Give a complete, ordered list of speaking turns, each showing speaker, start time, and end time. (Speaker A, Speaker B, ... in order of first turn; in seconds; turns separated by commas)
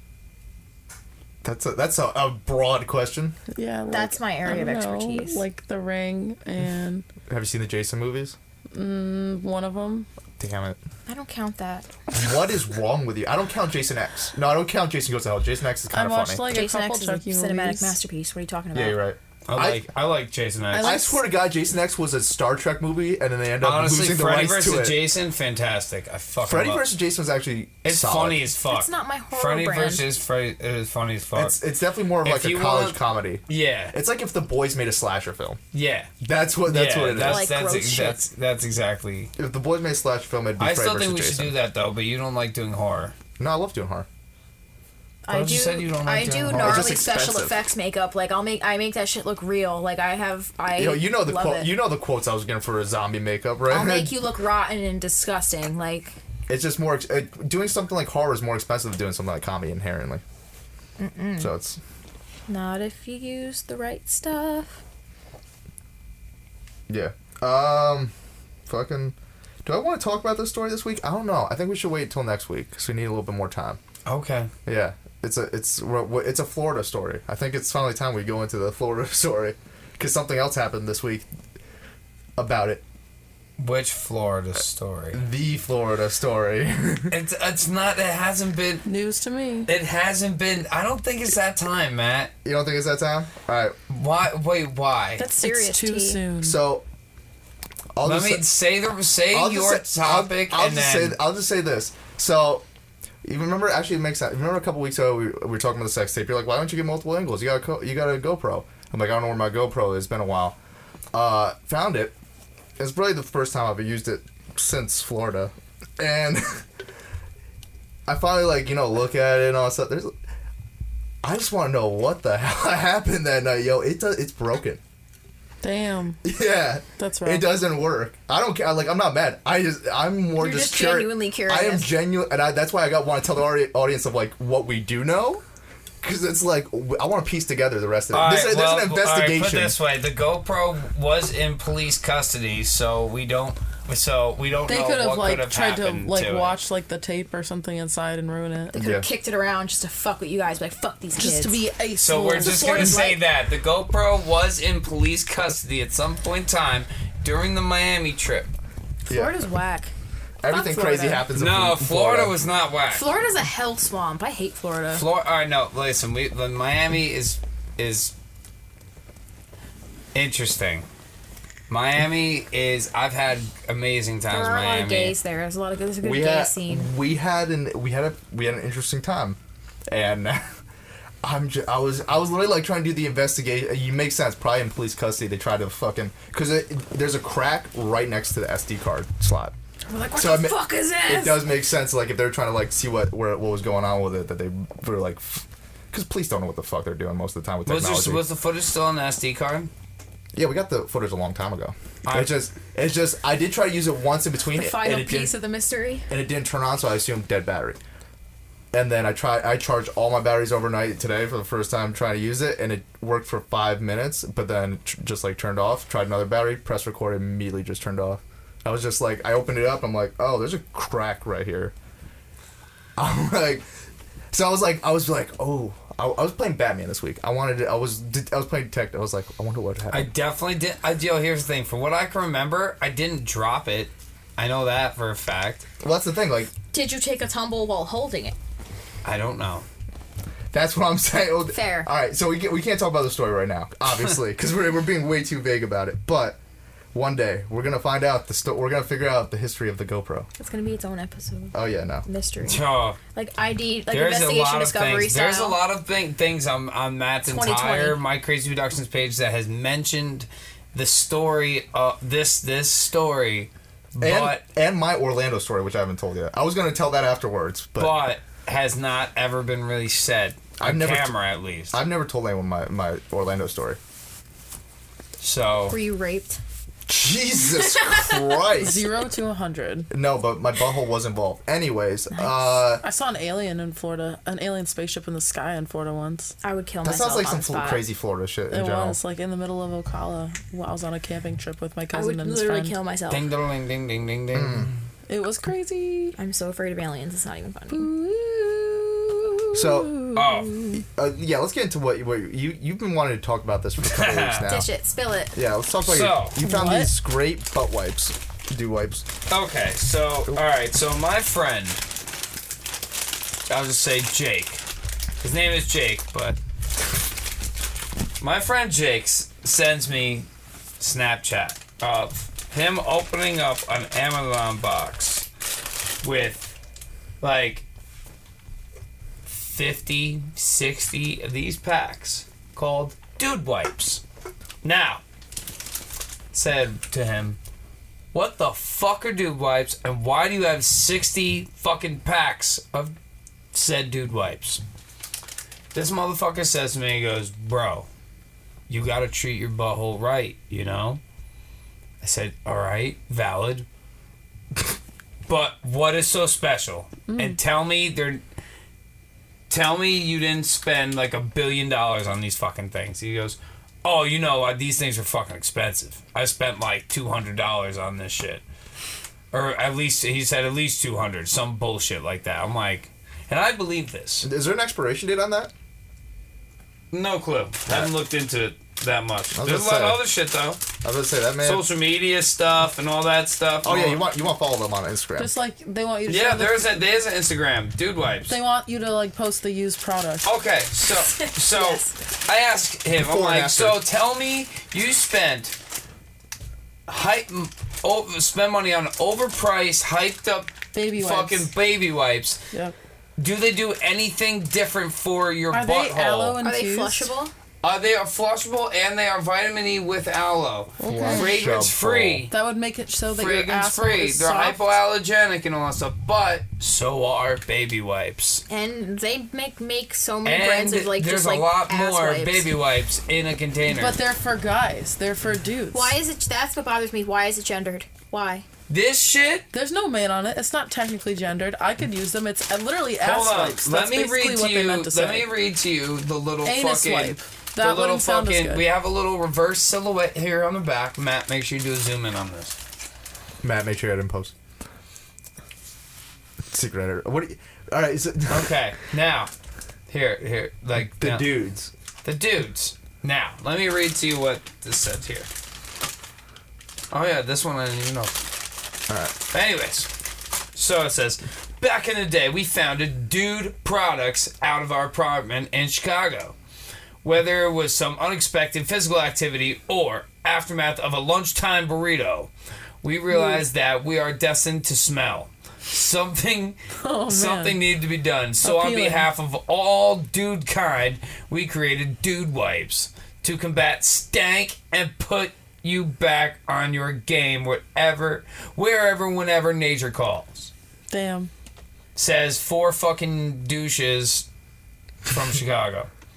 Speaker A: 1.4-3.4, Speaker B: 3.5-7.1, Speaker C: 3.9-5.4, Speaker A: 7.3-8.4, Speaker B: 8.7-10.1, Speaker A: 10.4-10.8, Speaker C: 11.1-11.9, Speaker A: 12.1-16.5, Speaker B: 15.9-18.0, Speaker C: 16.5-19.0, Speaker A: 18.7-19.9, Speaker D: 19.5-21.0, Speaker B: 20.7-21.2, Speaker A: 20.8-25.1, Speaker D: 23.6-26.9, Speaker A: 26.4-28.4, Speaker D: 27.8-31.6, Speaker C: 28.6-30.0, Speaker A: 31.4-35.6, Speaker D: 32.2-33.9, Speaker D: 35.7-36.1, Speaker A: 36.2-37.5, Speaker D: 36.6-39.3, Speaker C: 37.2-38.2, Speaker A: 39.4-41.5, Speaker D: 40.6-43.1, Speaker A: 43.4-44.1, Speaker C: 45.2-51.7, Speaker D: 45.3-47.0, Speaker A: 46.5-47.6, Speaker A: 50.7-54.1, Speaker C: 53.7-56.1, Speaker A: 56.5-60.2, Speaker C: 61.0-61.5, Speaker A: 61.4-61.8, Speaker C: 62.5-64.8, Speaker A: 66.9-68.1, Speaker A: 68.7-73.8, Speaker D: 74.0-74.5, Speaker A: 74.7-81.2, Speaker A: 82.4-82.8, Speaker D: 83.6-85.2, Speaker A: 85.1-87.1, Speaker D: 87.1-88.9, Speaker B: 88.8-89.7, Speaker D: 89.7-92.3, Speaker A: 92.4-93.8, Speaker D: 93.9-95.2, Speaker C: 95.2-96.2, Speaker B: 95.4-96.6, Speaker A: 96.4-96.8, Speaker A: 98.0-98.4, Speaker D: 98.0-101.2, Speaker A: 99.3-102.6, Speaker A: 103.2-110.6, Speaker A: 111.1-112.2, Speaker A: 112.8-116.7, Speaker A: 118.1-120.1, Speaker A: 121.2-124.8, Speaker B: 125.6-126.2, Speaker A: 126.2-135.4, Speaker B: 127.0-127.5, Speaker C: 130.4-131.9, Speaker A: 136.0-139.8, Speaker D: 138.1-146.6, Speaker B: 144.7-148.7, Speaker C: 148.7-151.6, Speaker A: 148.7-149.1, Speaker B: 151.2-153.0, Speaker D: 152.0-158.5, Speaker C: 152.3-153.2, Speaker C: 159.1-159.9, Speaker A: 159.1-159.4, Speaker A: 160.4-162.4, Speaker C: 160.5-161.2, Speaker D: 161.3-163.1, Speaker C: 162.9-165.0, Speaker D: 164.9-168.1, Speaker D: 170.1-170.9, Speaker D: 171.7-175.1, Speaker C: 174.3-176.9, Speaker A: 176.0-180.6, Speaker A: 181.2-189.5, Speaker C: 189.9-191.4, Speaker A: 190.2-198.2, Speaker D: 197.7-199.7, Speaker A: 200.3-205.3, Speaker D: 202.1-202.3, Speaker C: 204.5-206.1, Speaker A: 206.1-207.8, Speaker A: 208.7-221.7, Speaker A: 223.0-223.6, Speaker A: 224.3-230.1, Speaker D: 229.9-235.7, Speaker A: 235.8-236.5, Speaker C: 236.7-238.3, Speaker D: 239.0-239.7, Speaker A: 240.5-246.4, Speaker C: 241.5-241.9, Speaker A: 246.9-250.3, Speaker C: 250.4-255.6, Speaker A: 251.5-252.1, Speaker D: 252.4-253.0, Speaker D: 253.9-264.4, Speaker C: 257.2-258.0, Speaker A: 264.0-267.9, Speaker D: 267.8-271.8, Speaker A: 270.6-271.1, Speaker A: 271.7-273.8, Speaker D: 275.2-275.8, Speaker C: 275.7-276.4, Speaker A: 276.9-278.9, Speaker C: 277.5-278.3, Speaker B: 278.6-279.9, Speaker A: 279.9-282.8, Speaker C: 282.1-282.6, Speaker B: 282.8-286.4, Speaker C: 286.4-287.8, Speaker A: 286.8-289.0, Speaker B: 288.5-292.8, Speaker C: 291.9-293.3, Speaker D: 293.1-294.8, Speaker A: 294.3-294.7, Speaker B: 295.1-296.1, Speaker C: 296.2-298.1, Speaker B: 297.7-298.7, Speaker C: 298.6-299.0, Speaker A: 299.5-300.0, Speaker C: 299.6-300.1, Speaker B: 300.0-300.7, Speaker D: 300.1-300.6, Speaker A: 300.8-304.7, Speaker D: 303.8-304.5, Speaker C: 304.5-305.4, Speaker A: 305.4-309.1, Speaker D: 305.8-306.4, Speaker B: 306.4-306.9, Speaker D: 309.3-311.8, Speaker D: 313.5-314.6, Speaker D: 315.2-316.4, Speaker D: 318.2-320.3, Speaker D: 320.8-325.3, Speaker D: 326.0-326.6, Speaker D: 327.2-327.6, Speaker D: 329.2-334.0, Speaker D: 334.6-335.0, Speaker D: 336.3-337.4, Speaker D: 338.1-342.9, Speaker D: 343.5-344.6, Speaker D: 345.7-347.9, Speaker D: 348.7-351.0, Speaker D: 352.0-353.7, Speaker D: 355.2-358.2, Speaker B: 357.1-357.4, Speaker D: 359.5-368.4, Speaker D: 369.3-374.3, Speaker A: 374.2-375.5, Speaker D: 376.9-380.6, Speaker A: 377.7-377.9, Speaker A: 379.3-380.0, Speaker A: 380.8-381.6, Speaker D: 381.4-384.0, Speaker A: 383.6-385.3, Speaker B: 385.2-386.9, Speaker D: 386.1-388.3, Speaker B: 388.3-390.3, Speaker D: 390.2-395.5, Speaker C: 391.0-391.9, Speaker A: 393.0-393.8, Speaker D: 396.9-402.4, Speaker B: 400.7-401.5, Speaker D: 403.2-406.4, Speaker B: 405.5-407.1, Speaker C: 406.4-407.3, Speaker D: 407.6-412.3, Speaker B: 410.8-411.2, Speaker A: 410.9-412.2, Speaker C: 410.9-411.3, Speaker B: 412.3-414.7, Speaker D: 413.1-418.4, Speaker C: 418.5-422.5, Speaker D: 420.2-424.0, Speaker B: 423.7-425.9, Speaker C: 425.7-428.4, Speaker D: 428.7-429.4, Speaker B: 429.5-435.3, Speaker D: 433.0-442.6, Speaker B: 436.4-438.6, Speaker A: 443.4-444.3, Speaker A: 446.5-448.6, Speaker D: 448.3-449.3, Speaker D: 449.9-451.4, Speaker A: 450.8-451.7, Speaker D: 452.0-455.3, Speaker D: 456.9-458.2, Speaker A: 458.9-459.2, Speaker D: 459.3-459.9, Speaker D: 460.5-466.4, Speaker D: 467.0-472.3, Speaker D: 472.8-490.5, Speaker B: 473.1-473.4, Speaker B: 476.8-477.6, Speaker B: 478.4-479.1, Speaker B: 490.9-491.3, Speaker D: 491.9-494.3, Speaker D: 495.1-495.9